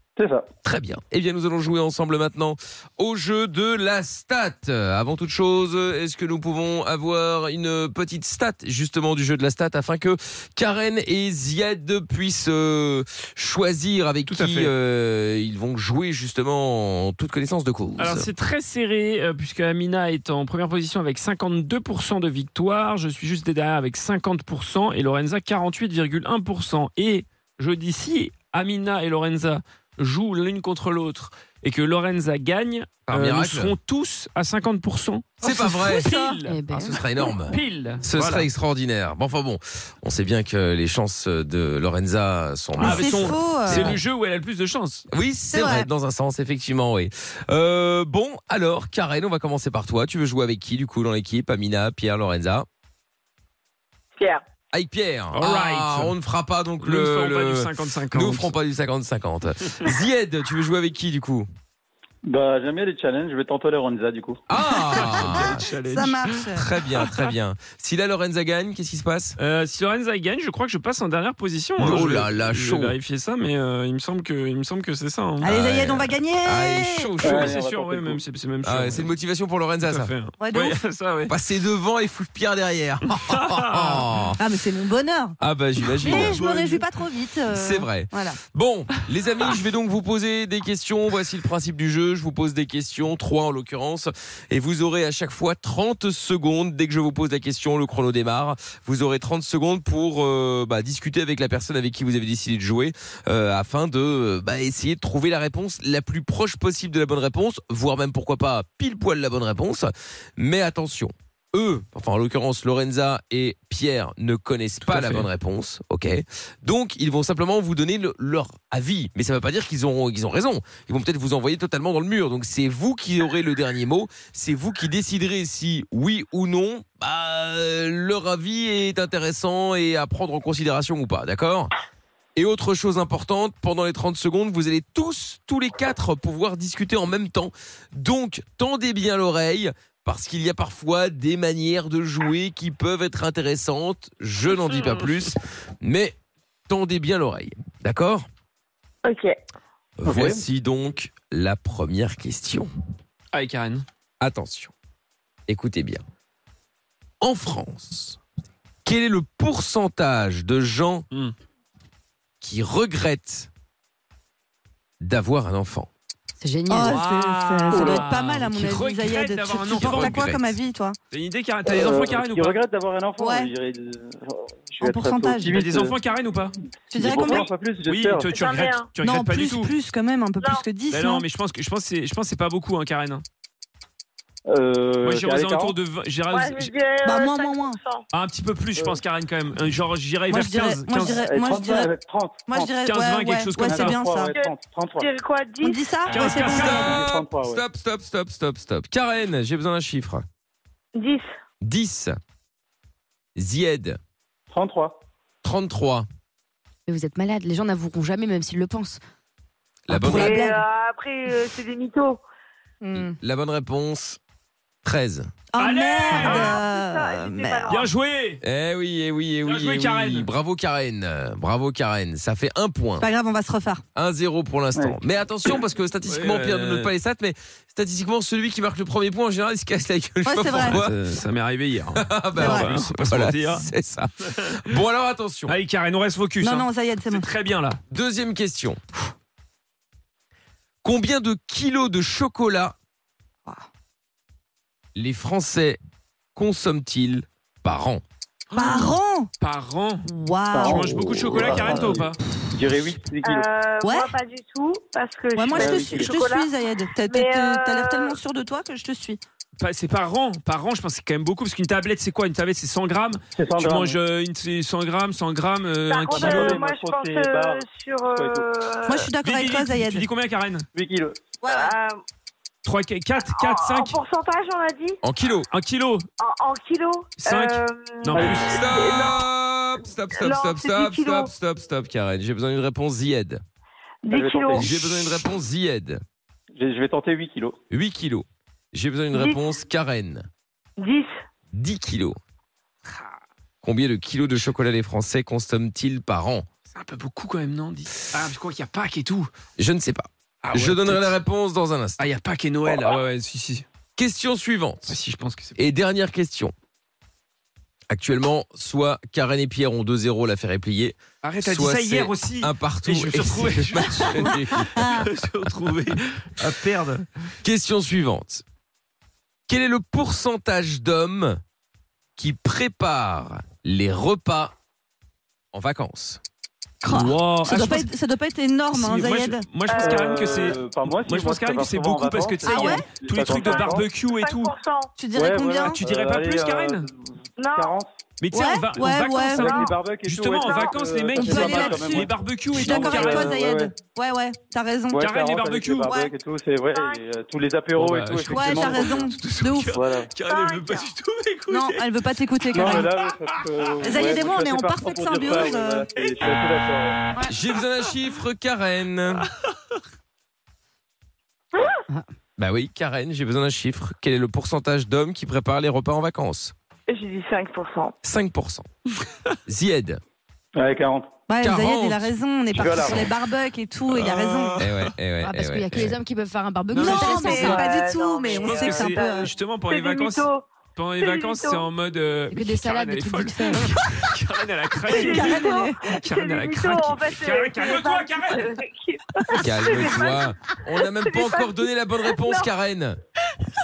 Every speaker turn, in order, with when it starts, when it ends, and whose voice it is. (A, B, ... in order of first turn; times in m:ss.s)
0:00.2-0:00.5 A
0:00.6-0:18.3 B
0:14.3-0:14.7 C
0:18.0-0:36.6 C
0:33.1-0:33.7 B
0:35.4-0:36.1 B
0:35.4-0:36.4 D
0:36.5-0:37.0 E
0:36.7-0:44.0 B
0:37.5-0:38.5 C
0:42.8-0:43.9 D
0:42.8-0:45.1 C
0:45.1-0:52.7 B
0:45.5-0:45.9 D
0:54.7-1:01.5 B
0:55.3-0:56.1 C
0:56.8-0:58.5 C
1:02.2-1:04.4 A
1:04.5-1:05.6 B
1:04.8-1:06.7 D
1:04.9-1:07.3 C
1:06.6-1:09.4 B
1:09.4-1:15.5 C
1:11.8-1:12.9 B
1:15.4-1:17.1 D
1:15.5-1:17.6 B
1:17.2-1:18.2 A
1:17.2-1:19.1 C
1:18.6-1:20.1 B
1:19.9-1:21.3 C
1:20.4-1:20.8 D
1:21.3-1:24.4 B
1:23.1-1:24.1 C
1:24.4-1:25.4 D
1:25.4-1:26.7 B
1:26.0-1:26.8 C
1:26.0-1:28.4 D
1:27.5-2:11.7 B
1:54.8-1:55.3 C
2:12.4-2:26.1 B
2:24.7-2:25.0 C
2:26.7-2:28.3 B
2:29.0-2:29.3 F
2:30.0-2:32.7 B
2:30.0-2:30.4 A
2:33.3-2:33.8 C
2:34.2-2:34.7 B
2:35.5-2:36.0 B
2:37.2-2:38.2 B
2:38.8-2:41.0 B
2:42.4-2:43.5 B
2:45.0-2:45.9 B
2:46.4-2:47.0 E
2:46.7-2:51.0 D
2:46.8-2:50.2 C
2:47.7-2:48.0 A
2:49.7-2:50.6 B
2:51.1-2:52.6 C
2:51.6-2:56.0 A
2:53.2-2:53.5 D
2:54.8-2:55.6 D
2:55.5-2:56.5 C
2:56.9-2:57.4 D
2:56.9-2:58.3 A
2:57.1-2:59.7 C
2:58.3-2:58.8 F
2:59.0-3:01.2 D
3:00.9-3:03.2 C
3:04.5-3:05.8 A
3:05.0-3:06.7 C
3:06.3-3:08.0 F
3:07.0-3:07.8 D
3:08.1-3:11.2 C
3:08.8-3:09.0 A
3:10.3-3:11.9 D
3:11.1-3:12.7 A
3:12.5-3:14.3 D
3:12.8-3:14.0 C
3:13.6-3:15.1 A
3:14.3-3:15.8 F
3:15.6-3:16.9 D
3:16.1-3:16.9 C
3:16.2-3:20.2 B
3:16.8-3:17.6 A
3:20.9-3:21.3 F
3:21.6-3:22.2 B
3:23.4-3:24.0 B
3:24.5-3:25.0 A
3:25.4-3:26.1 B
3:26.9-3:29.0 E
3:29.9-3:30.5 B
3:29.9-3:30.6 D
3:30.1-3:32.2 F
3:32.8-3:33.1 D
3:32.9-3:34.2 B
3:34.8-3:35.3 B
3:35.5-3:37.8 D
3:35.6-3:36.6 C
3:36.0-3:37.9 F
3:37.7-3:38.4 C
3:38.4-3:43.0 B
3:39.4-3:40.3 C
3:43.0-3:43.8 D
3:43.9-3:51.0 B
3:46.0-3:46.9 C
3:50.2-3:50.8 D
3:50.7-3:53.7 C
3:52.0-3:55.5 B
3:52.4-3:52.7 D
3:55.5-3:57.8 C
3:56.4-3:57.3 D
3:57.9-3:58.8 B
4:00.8-4:02.8 B
4:04.9-4:05.8 B
4:06.3-4:08.0 B
4:08.5-4:08.8 C
4:08.5-4:09.3 D
4:09.4-4:10.1 C
4:10.0-4:12.1 D
4:10.5-4:13.5 A
4:10.6-4:12.2 C
4:13.2-4:16.5 F
4:13.8-4:14.1 D
4:15.4-4:19.2 D
4:15.5-4:16.1 A
4:17.1-4:18.2 F
4:19.6-4:26.6 C
4:23.4-4:24.0 A
4:25.9-4:29.1 F
4:26.1-4:28.5 A
4:28.8-4:30.0 D
4:29.2-4:30.7 C
4:30.7-4:31.3 A
4:31.4-4:31.7 D
4:31.4-4:32.0 F
4:32.6-4:34.0 C
4:33.2-4:35.0 F
4:35.0-4:35.5 B
4:35.5-4:36.1 C
4:36.2-4:39.1 F
4:37.2-4:38.9 C
4:38.2-4:43.4 B
4:40.1-4:41.3 F
4:44.0-4:44.7 F
4:44.1-4:44.8 A
4:44.5-4:46.0 B
4:46.6-4:47.6 A
4:47.7-4:50.3 B
4:49.1-4:49.4 F
4:50.8-4:51.1 F
4:51.5-4:52.2 B
4:53.6-4:56.4 B
4:56.7-4:59.3 C
4:59.6-5:02.0 B
5:00.4-5:01.2 C
5:02.0-5:03.6 C
5:02.6-5:02.9 B
5:04.0-5:04.9 B
5:04.9-5:05.6 C
5:05.6-5:06.5 B
5:07.9-5:14.8 B
5:11.2-5:17.0 C
5:14.7-5:15.1 D
5:17.4-5:18.4 B
5:19.5-5:21.4 B
5:22.2-5:24.5 B
5:25.5-5:26.2 B
5:26.8-5:29.4 D
5:26.9-5:27.9 C
5:28.7-5:34.6 C
5:29.7-5:30.1 F
5:29.7-5:33.9 A
5:32.4-5:32.8 D
5:33.5-5:34.9 F
5:35.0-5:35.8 D
5:35.1-5:38.0 A
5:35.6-5:36.9 C
5:37.4-5:37.7 F
5:38.2-5:43.4 C
5:38.3-5:39.7 D
5:39.3-5:43.7 A
5:39.4-5:39.6 F
5:40.4-5:40.7 F
5:41.1-5:45.1 D
5:44.9-5:49.1 A
5:45.0-5:46.0 C
5:45.8-5:46.1 D
5:46.7-5:47.0 F
5:47.8-5:51.9 C
5:48.2-5:49.7 D
5:49.7-5:50.1 A
5:50.2-5:50.9 F
5:51.5-5:52.9 D
5:52.5-5:57.0 A
5:52.6-5:53.4 C
5:53.8-5:55.9 D
5:53.9-5:54.2 C
5:57.3-5:59.2 B
6:02.4-6:06.5 B
6:06.9-6:07.9 F
6:08.0-6:08.6 B
6:09.4-6:10.0 B
6:10.6-6:11.1 A
6:11.3-6:14.6 D
6:11.4-6:12.1 B
6:12.5-6:13.1 A
6:13.9-6:14.9 C
6:14.6-6:16.0 B
6:15.2-6:17.7 E
6:16.7-6:17.4 C
6:16.7-6:19.3 D
6:17.3-6:20.4 F
6:18.3-6:28.6 C
6:21.0-6:21.7 F
6:22.3-6:23.8 E
6:24.9-6:26.0 D
6:24.9-6:30.3 F
6:29.4-6:33.0 B
6:30.8-6:32.5 F